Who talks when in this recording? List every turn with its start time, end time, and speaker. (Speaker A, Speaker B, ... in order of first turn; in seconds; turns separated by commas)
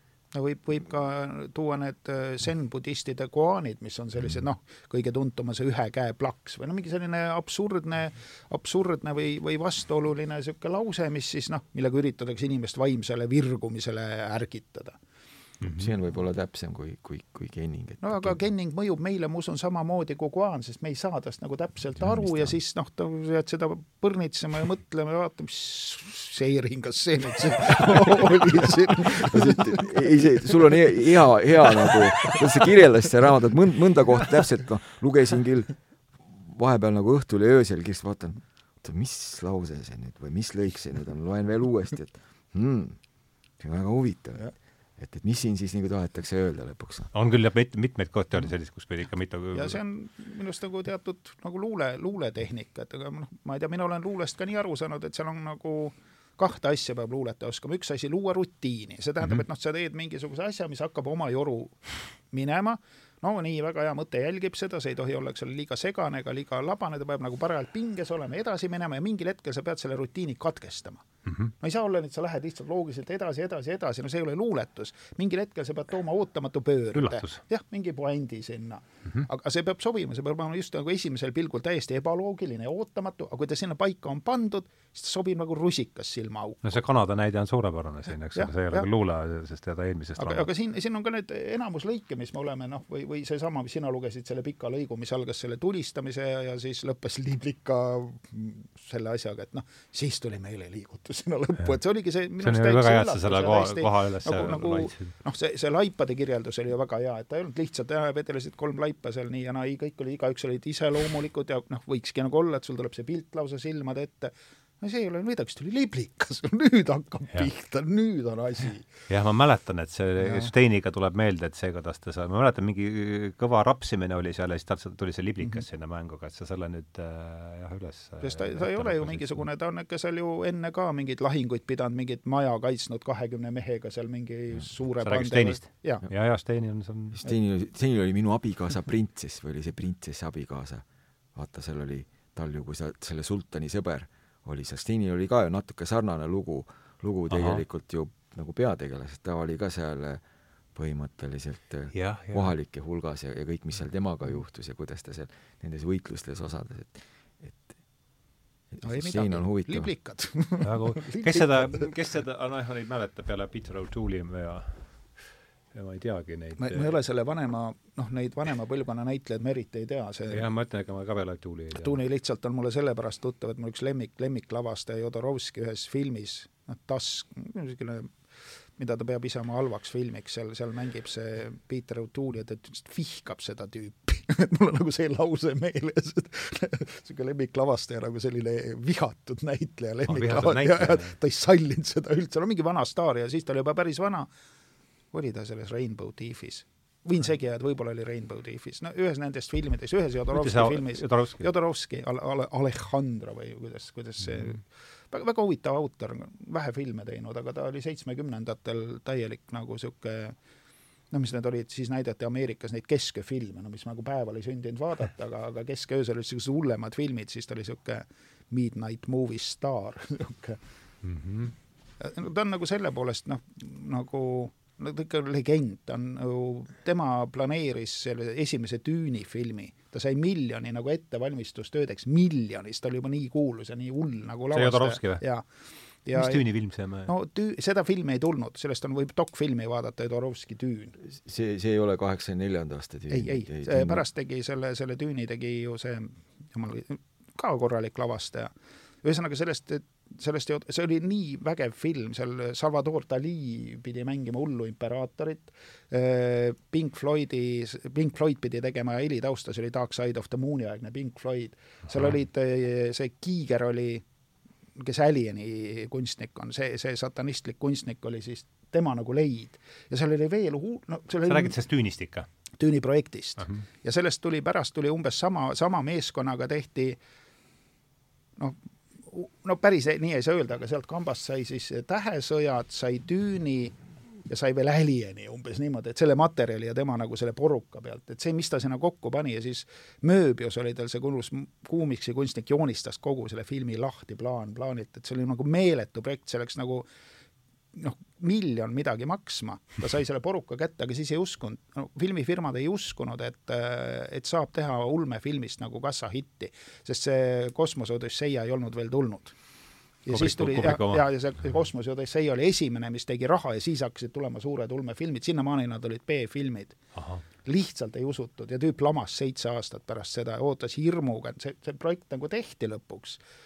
Speaker A: 0.3-15.0, Speaker B: 15.6-15.9, Speaker C: 15.7-18.4, Speaker A: 18.0-30.8, Speaker C: 29.1-43.0, Speaker A: 31.9-32.3, Speaker C: 43.6-47.1, Speaker B: 47.1-49.8, Speaker A: 49.5-71.0, Speaker B: 71.3-71.5, Speaker A: 71.6-86.7, Speaker B: 76.9-77.4, Speaker B: 86.6-90.5, Speaker A: 88.3-88.9, Speaker A: 90.2-118.9, Speaker B: 102.4-105.1, Speaker B: 119.1-129.5, Speaker A: 120.2-120.5, Speaker A: 128.2-136.1, Speaker B: 135.0-137.2, Speaker C: 137.1-140.8, Speaker C: 141.3-150.2, Speaker B: 147.3-147.6, Speaker C: 150.8-157.7, Speaker B: 151.9-152.5, Speaker C: 158.7-159.9, Speaker A: 158.8-161.9, Speaker B: 160.6-167.0, Speaker A: 166.6-170.5, Speaker B: 170.3-172.0, Speaker A: 171.7-178.2, Speaker A: 178.8-194.3, Speaker B: 190.1-191.2, Speaker A: 195.1-210.4, Speaker B: 200.3-201.5, Speaker A: 211.1-220.6, Speaker B: 221.0-221.5, Speaker A: 222.0-235.4, Speaker B: 234.5-235.2, Speaker A: 236.1-236.4, Speaker B: 236.1-237.1, Speaker A: 237.1-241.0, Speaker C: 241.0-244.1, Speaker A: 243.1-248.5, Speaker A: 249.0-264.0, Speaker A: 264.8-271.6, Speaker B: 271.3-272.3, Speaker A: 272.6-277.0, Speaker B: 273.4-273.6, Speaker A: 278.4-283.8, Speaker A: 284.3-296.9, Speaker A: 297.7-309.4, Speaker A: 310.1-316.8, Speaker B: 310.1-311.1, Speaker B: 316.9-317.2, Speaker A: 317.4-323.2